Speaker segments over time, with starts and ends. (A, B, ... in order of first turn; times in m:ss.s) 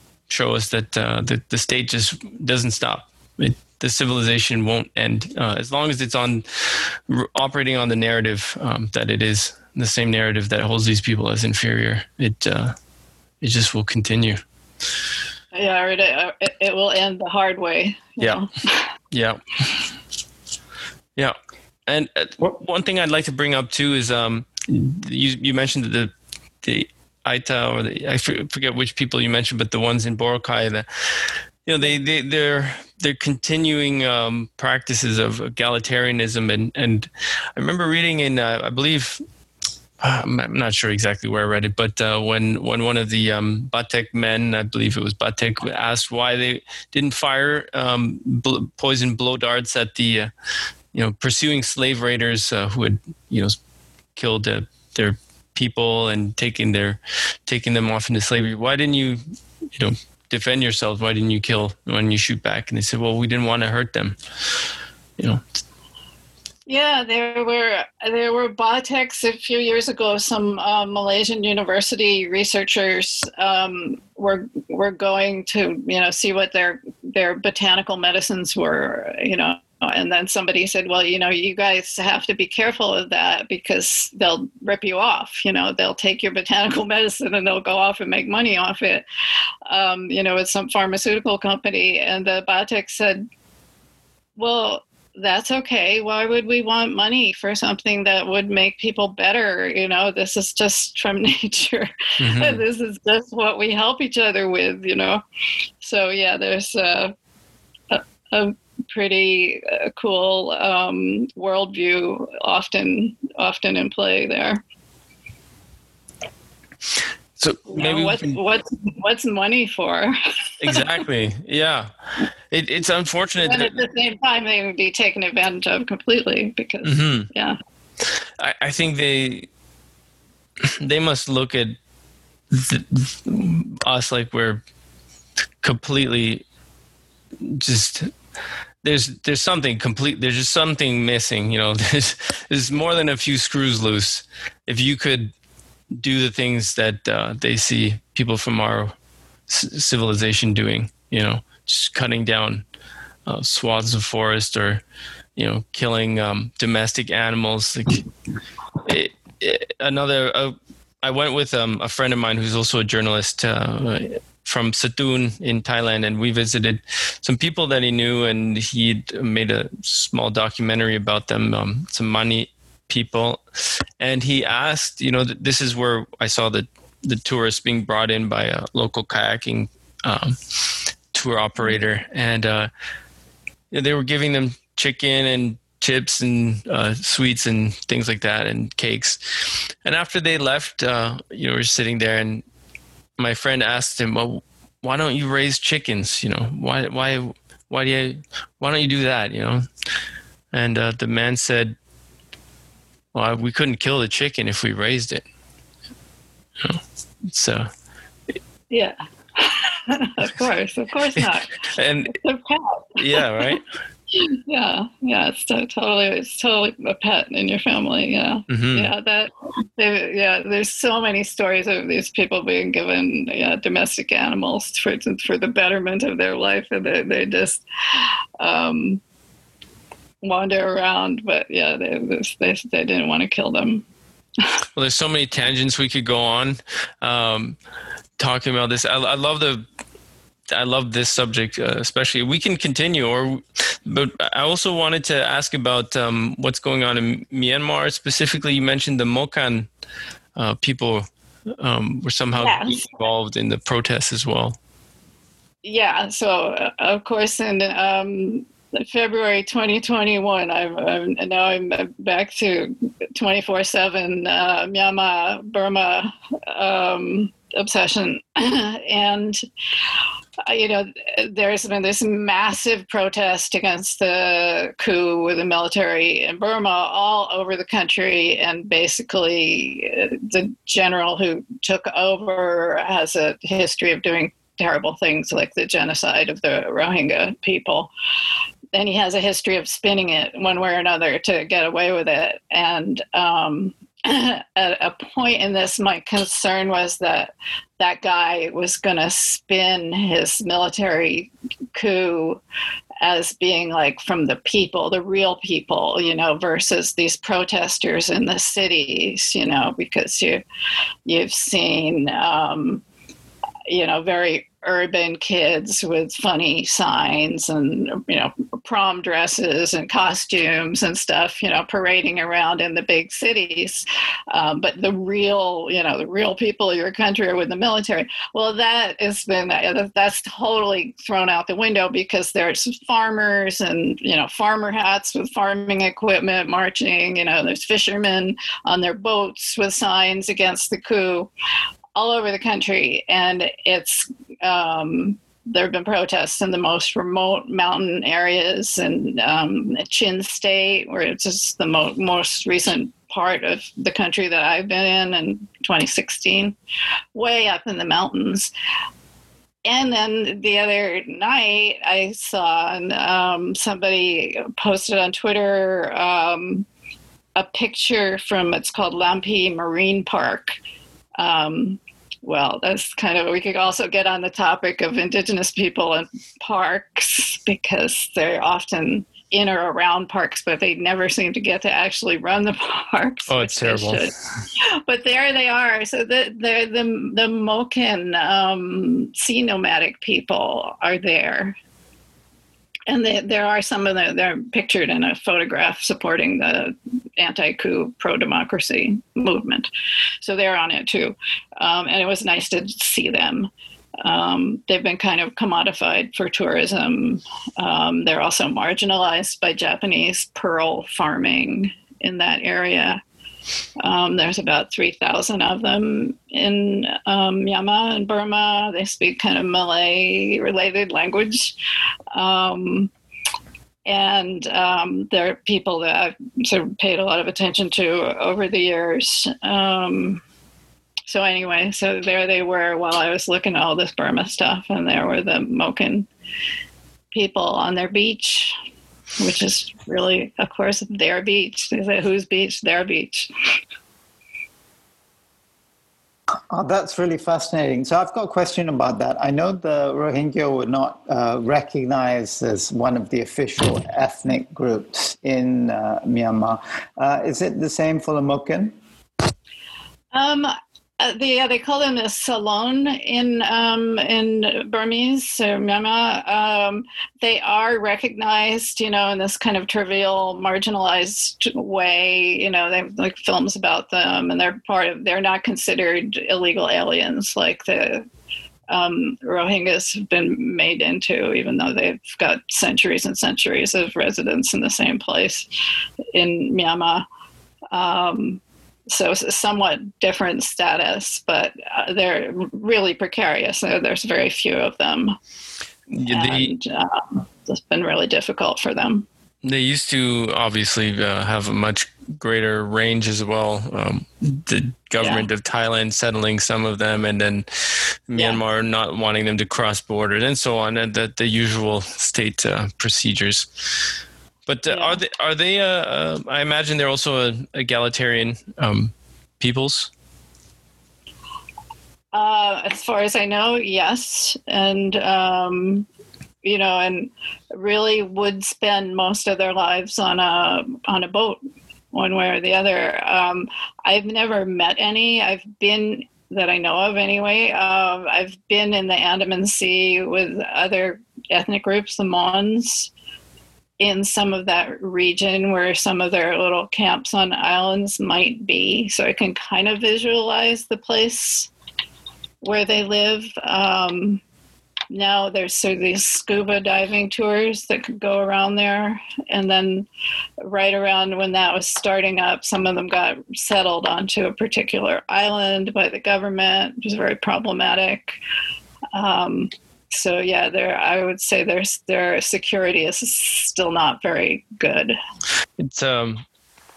0:00.3-0:12.7 A
0:13.4-0:14.4 A
0:15.5-0:18.8 B
0:19.1-0:19.4 A
0:21.9-0:39.2 A
0:40.0-0:50.3 A
0:50.9-0:53.6 A
0:54.1-0:59.2 A
0:59.8-1:04.2 A
1:05.2-1:05.4 A
1:06.6-1:29.0 B
1:29.6-1:33.2 B
1:34.4-1:45.2 B
1:42.2-1:42.6 A
1:45.8-1:47.1 B
1:47.9-1:54.6 B
1:57.4-1:58.4 A
1:57.7-2:00.8 B
2:00.6-2:01.9 A
2:02.5-2:03.7 A
2:03.4-2:07.6 B
2:06.8-2:07.3 A
2:08.4-2:09.5 A
2:10.8-2:11.8 A
2:12.5-2:14.6 A
2:15.6-2:16.4 A
2:17.4-2:18.1 A
2:18.8-2:25.3 A
2:25.9-2:28.9 A
2:29.5-2:32.6 A
2:33.2-2:34.8 A
2:35.4-2:38.0 A
2:38.8-3:02.7 A
3:03.7-3:12.4 A
3:13.2-3:19.6 A
3:20.5-3:21.8 A
3:23.1-3:25.2 A
3:26.6-3:27.7 A
3:28.7-3:31.5 B
3:31.6-3:32.2 A
3:32.1-3:33.2 B
3:33.0-3:33.6 A
3:34.1-3:49.0 B
3:38.5-3:38.9 A
3:50.2-3:53.8 B
3:54.8-3:57.6 A
3:58.2-3:59.6 A
4:00.5-4:09.7 A
4:10.4-4:11.0 A
4:11.6-4:14.6 A
4:12.4-4:12.8 B
4:15.6-4:29.4 B
4:30.4-4:47.9 B
4:48.7-5:02.4 B
5:03.0-5:10.4 B
5:11.0-5:12.8 B
5:13.6-5:41.3 B
5:41.9-5:56.6 B
5:57.1-5:58.5 B
5:59.6-6:06.7 B
6:07.4-6:10.6 B
6:11.2-6:31.6 B
6:23.3-6:24.1 A
6:32.9-6:39.7 B
6:40.2-6:43.5 B
6:44.0-6:53.0 B
6:53.8-7:01.5 B
7:02.1-7:02.9 B
7:03.8-7:10.2 B
7:11.1-7:16.1 B
7:17.1-7:18.5 B
7:19.2-7:23.3 B
7:26.5-7:38.7 C
7:40.1-7:58.0 B
7:58.7-8:05.5 B
8:06.1-8:07.0 B
8:07.7-8:15.2 B
8:15.9-8:16.5 A
8:16.1-8:19.1 B
8:19.4-8:33.8 A
8:25.0-8:25.2 B
8:34.4-8:39.9 A
8:34.7-8:35.0 B
8:42.1-8:45.9 B
8:46.4-8:51.4 B
8:51.9-9:02.9 B
9:03.8-9:11.5 B
9:12.4-9:14.2 B
9:14.9-9:19.9 B
9:20.4-9:28.2 B
9:28.9-9:35.0 B
9:35.6-9:36.2 A